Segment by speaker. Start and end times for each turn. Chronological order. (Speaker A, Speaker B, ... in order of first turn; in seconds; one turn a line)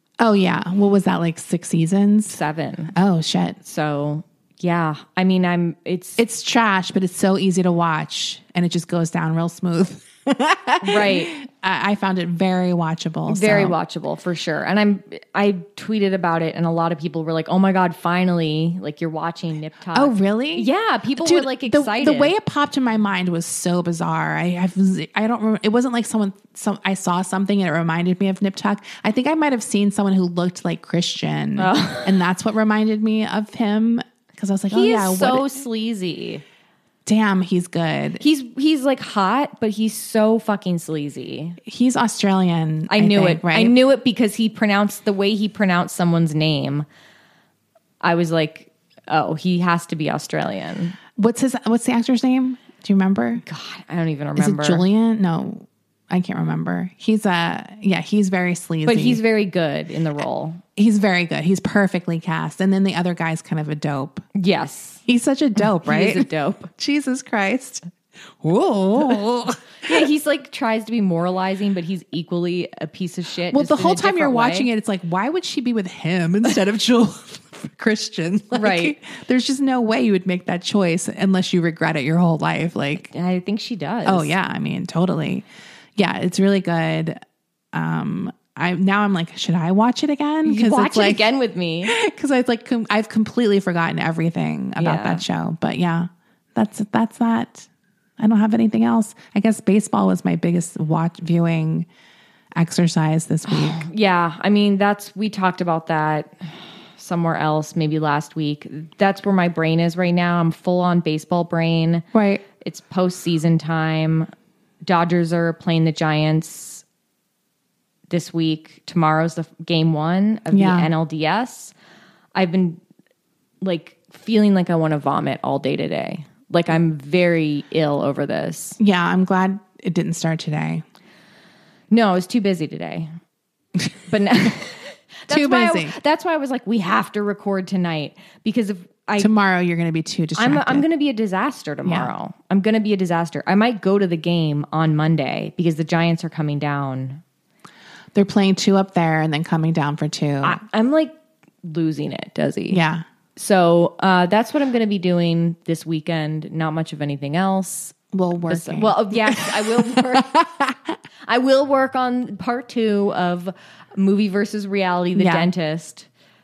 Speaker A: 0.2-2.4
Speaker B: 2.3-3.0
Speaker A: 3.0-3.6
Speaker B: 3.6-6.2
Speaker A: 6.2-13.8
Speaker B: 10.8-11.3
Speaker B: 13.3-22.3
Speaker A: 19.9-35.5
Speaker B: 31.6-32.2
Speaker B: 34.7-36.4
Speaker A: 37.1-38.2
Speaker B: 38.2-41.6
Speaker A: 41.6-43.8
Speaker B: 42.9-46.9
Speaker B: 48.0-51.0
Speaker A: 51.2-53.4
Speaker B: 53.5-54.9
Speaker A: 54.4-59.2
Speaker B: 58.9-60.6
Speaker A: 60.8-64.2
Speaker B: 64.3-65.0
Speaker A: 65.1-67.8
Speaker B: 65.6-66.7
Speaker A: 68.4-70.1
Speaker B: 69.8-74.7
Speaker A: 73.5-83.1
Speaker B: 78.5-79.0
Speaker B: 83.0-84.3
Speaker A: 84.0-87.2
Speaker A: 87.7-91.3
Speaker B: 90.5-91.9
Speaker A: 91.9-97.7
Speaker B: 94.8-95.2
Speaker A: 98.2-101.9
Speaker A: 102.5-103.9
Speaker B: 103.5-112.1
Speaker A: 112.1-112.4
Speaker B: 112.6-114.3
Speaker B: 114.8-116.8
Speaker B: 118.1-121.7
Speaker A: 120.5-120.9
Speaker B: 122.3-122.8
Speaker B: 123.6-128.8
Speaker A: 128.8-130.8
Speaker B: 131.9-133.2
Speaker B: 134.1-139.3
Speaker A: 135.3-136.0
Speaker A: 139.2-140.8
Speaker B: 140.3-147.2
Speaker A: 141.8-142.1
Speaker A: 148.1-150.6
Speaker B: 150.4-152.8
Speaker A: 152.7-153.1
Speaker B: 153.4-158.0
Speaker A: 158.1-161.0
Speaker B: 158.5-160.3
Speaker B: 161.3-166.1
Speaker A: 165.2-165.5